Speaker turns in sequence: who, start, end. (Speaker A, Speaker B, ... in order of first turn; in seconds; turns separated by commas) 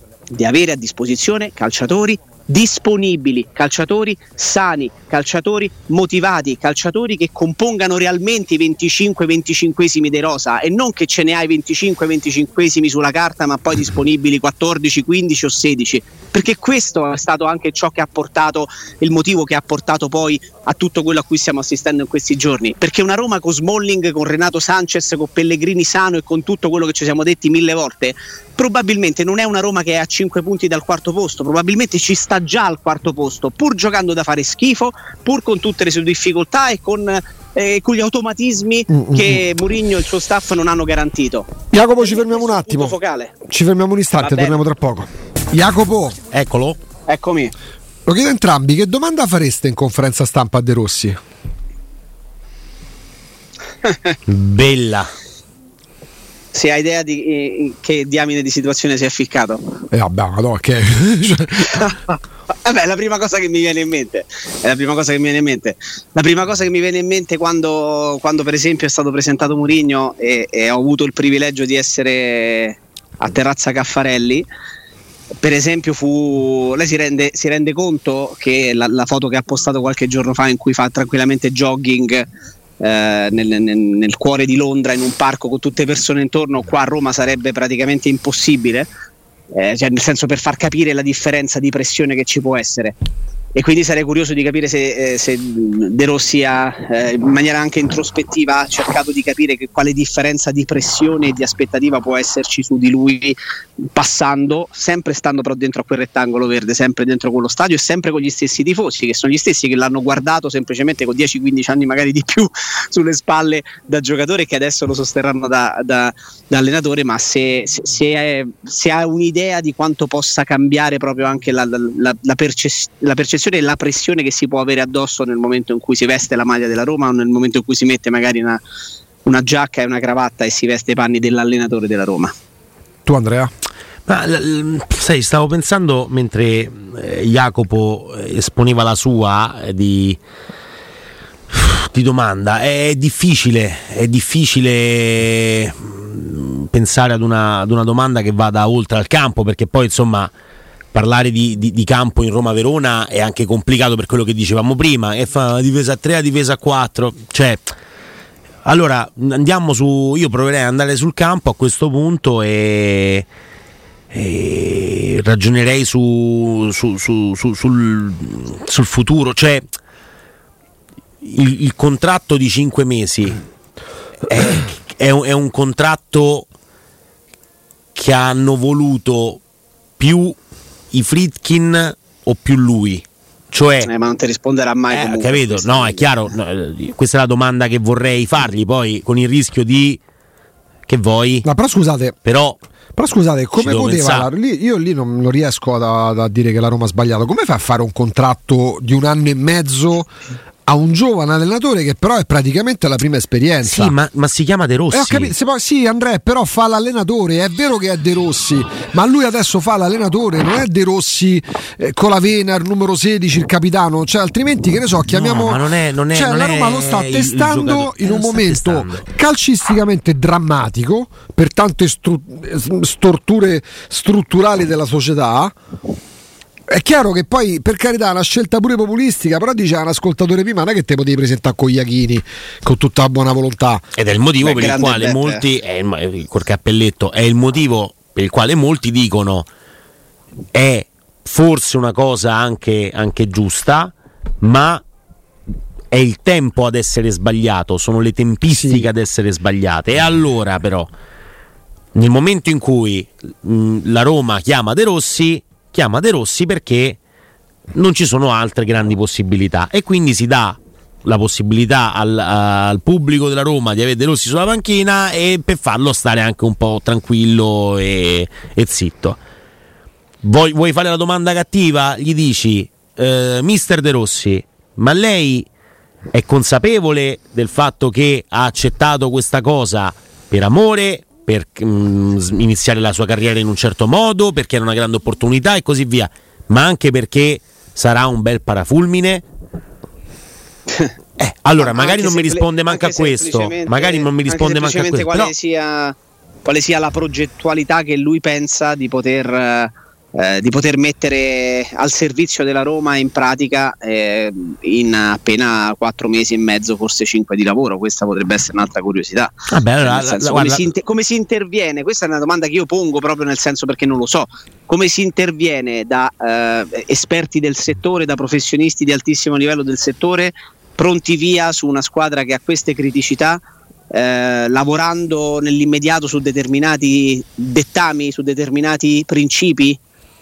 Speaker A: 0.3-43.3, Speaker B: 38.9-39.4, Speaker B: 41.7-46.2, Speaker A: 44.2-44.6, Speaker C: 46.3-46.8, Speaker A: 47.1-47.5, Speaker B: 48.0-51.2, Speaker A: 53.8-54.1, Speaker C: 54.3-55.1, Speaker A: 56.5-59.8, Speaker B: 59.9-61.8, Speaker A: 61.7-74.5, Speaker A: 75.4-82.3, Speaker A: 82.8-88.9, Speaker A: 89.5-92.9, Speaker A: 93.5-103.4, Speaker A: 103.9-128.6, Speaker A: 129.2-132.3, Speaker B: 133.1-133.5, Speaker C: 134.1-140.2, Speaker C: 141.5-150.3, Speaker C: 150.9-157.6, Speaker C: 158.6-163.2, Speaker C: 164.1-169.7, Speaker C: 171.2-173.4, Speaker C: 174.3-176.4, Speaker C: 177.9-179.4, Speaker C: 180.0-180.3, Speaker C: 180.9-183.9, Speaker A: 183.8-186.1, Speaker C: 184.9-190.0, Speaker C: 190.9-191.4, Speaker B: 191.4-192.2, Speaker C: 192.2-192.6, Speaker B: 192.9-200.1, Speaker C: 193.6-194.3, Speaker B: 200.7-203.9, Speaker C: 203.6-205.3, Speaker B: 204.9-225.5, Speaker C: 215.1-219.1, Speaker B: 226.7-233.8, Speaker C: 233.9-239.5, Speaker A: 234.4-235.4, Speaker C: 240.5-244.8, Speaker C: 245.9-250.9, Speaker B: 248.5-248.9, Speaker C: 251.9-257.0, Speaker C: 257.7-269.2, Speaker C: 270.2-275.5, Speaker C: 276.1-289.2, Speaker C: 291.2-295.3, Speaker A: 291.6-329.8, Speaker C: 309.5-310.6